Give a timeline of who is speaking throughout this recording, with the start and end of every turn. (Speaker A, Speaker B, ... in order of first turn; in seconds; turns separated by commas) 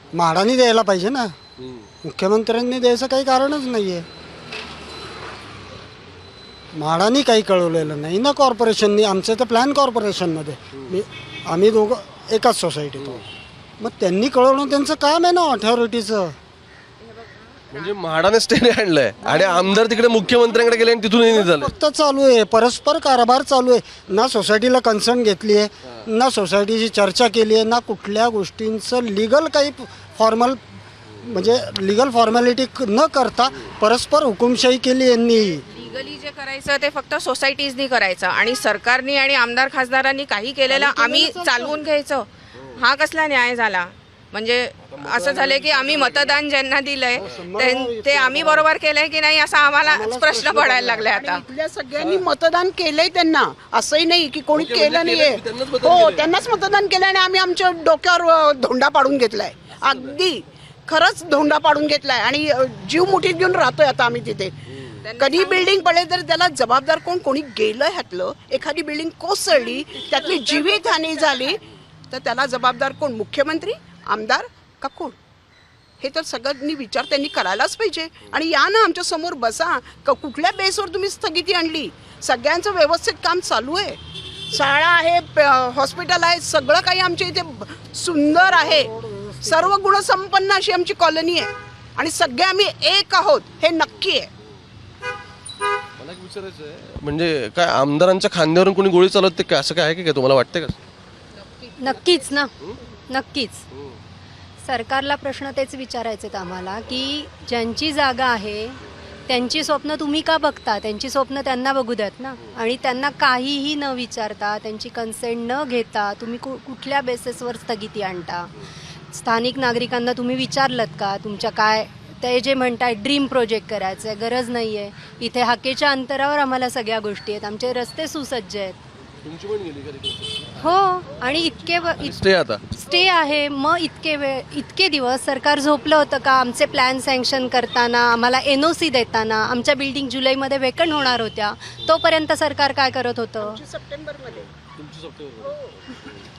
Speaker A: 0.1-1.3, Speaker B: 1.6-1.9, Speaker A: 2.0-4.1, Speaker A: 6.8-13.2, Speaker A: 13.8-16.4, Speaker B: 17.7-21.7, Speaker A: 19.3-19.6, Speaker A: 21.2-30.6, Speaker A: 31.2-35.6, Speaker C: 35.7-51.4, Speaker A: 40.7-41.8, Speaker B: 44.9-46.3, Speaker A: 47.2-48.7, Speaker A: 49.8-51.2, Speaker D: 51.1-64.5, Speaker B: 52.0-52.2, Speaker B: 54.5-56.6, Speaker B: 59.9-60.1, Speaker C: 65.0-65.8, Speaker D: 65.2-75.2, Speaker D: 76.0-84.0, Speaker D: 84.5-88.9, Speaker A: 88.3-89.7, Speaker D: 89.4-94.3, Speaker B: 96.0-100.8, Speaker E: 101.8-102.5, Speaker E: 103.1-103.7, Speaker E: 104.6-118.5, Speaker E: 119.1-128.8, Speaker B: 129.2-130.6, Speaker E: 130.6-143.6, Speaker B: 132.0-132.6, Speaker D: 143.4-144.5, Speaker B: 144.7-146.1